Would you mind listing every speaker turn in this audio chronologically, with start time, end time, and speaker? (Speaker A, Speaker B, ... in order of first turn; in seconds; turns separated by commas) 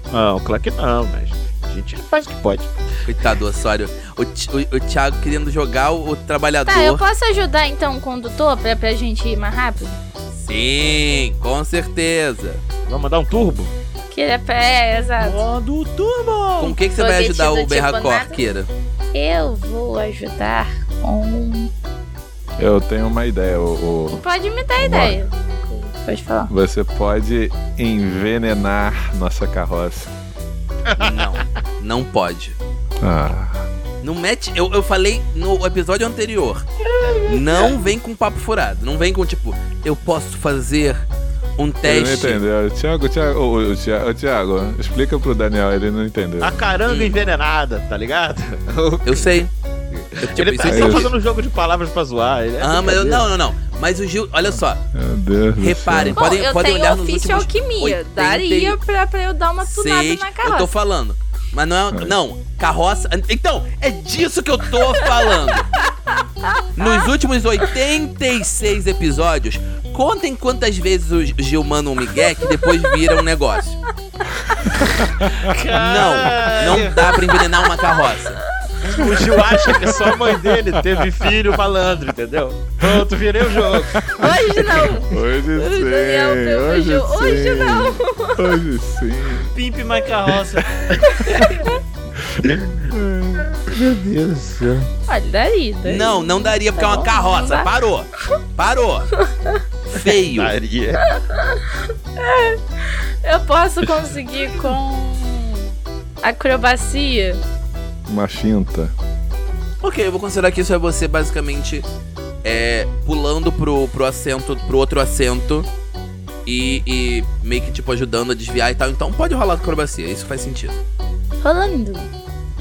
Speaker A: 0.1-2.7, Speaker B: 3.0-7.0, Speaker C: 6.7-10.0, Speaker B: 10.3-12.6, Speaker A: 12.8-13.7, Speaker C: 14.1-15.4, Speaker D: 15.2-16.6, Speaker B: 16.6-18.7, Speaker C: 16.9-18.4, Speaker C: 19.1-21.7, Speaker E: 22.6-24.2, Speaker C: 24.1-26.5, Speaker E: 24.8-25.2, Speaker E: 26.5-30.1, Speaker A: 30.9-31.3, Speaker B: 31.0-32.5, Speaker E: 33.0-33.6, Speaker B: 34.0-36.6, Speaker D: 37.2-37.7, Speaker B: 37.3-41.0, Speaker B: 41.6-42.4, Speaker E: 41.8-46.7, Speaker A: 46.4-53.2, Speaker B: 46.9-47.2, Speaker B: 49.0-49.5, Speaker B: 50.2-51.1, Speaker E: 50.6-51.1, Speaker B: 52.6-54.8, Speaker E: 54.9-56.2, Speaker B: 55.6-58.8, Speaker C: 56.1-60.7, Speaker B: 59.6-65.7, Speaker E: 61.9-62.1, Speaker C: 65.0-65.3, Speaker C: 66.4-67.1, Speaker B: 66.8-73.8, Speaker E: 75.2-75.5, Speaker D: 75.3-77.1, Speaker B: 75.7-78.4, Speaker C: 77.0-77.9, Speaker A: 78.9-84.1, Speaker E: 79.8-81.1, Speaker E: 83.9-84.5, Speaker C: 84.1-88.5, Speaker E: 85.1-89.5, Speaker D: 89.5-91.5, Speaker C: 91.4-91.7, Speaker E: 92.2-93.5, Speaker A: 92.4-92.9, Speaker A: 93.7-94.9, Speaker C: 95.1-97.7, Speaker B: 95.8-99.1, Speaker C: 99.2-99.6, Speaker B: 99.9-100.5, Speaker A: 100.2-101.0, Speaker C: 101.1-102.6, Speaker C: 103.2-105.7, Speaker C: 106.2-107.4, Speaker E: 108.1-108.9, Speaker B: 109.8-111.8, Speaker B: 112.4-115.7, Speaker B: 116.5-120.8, Speaker C: 121.4-122.1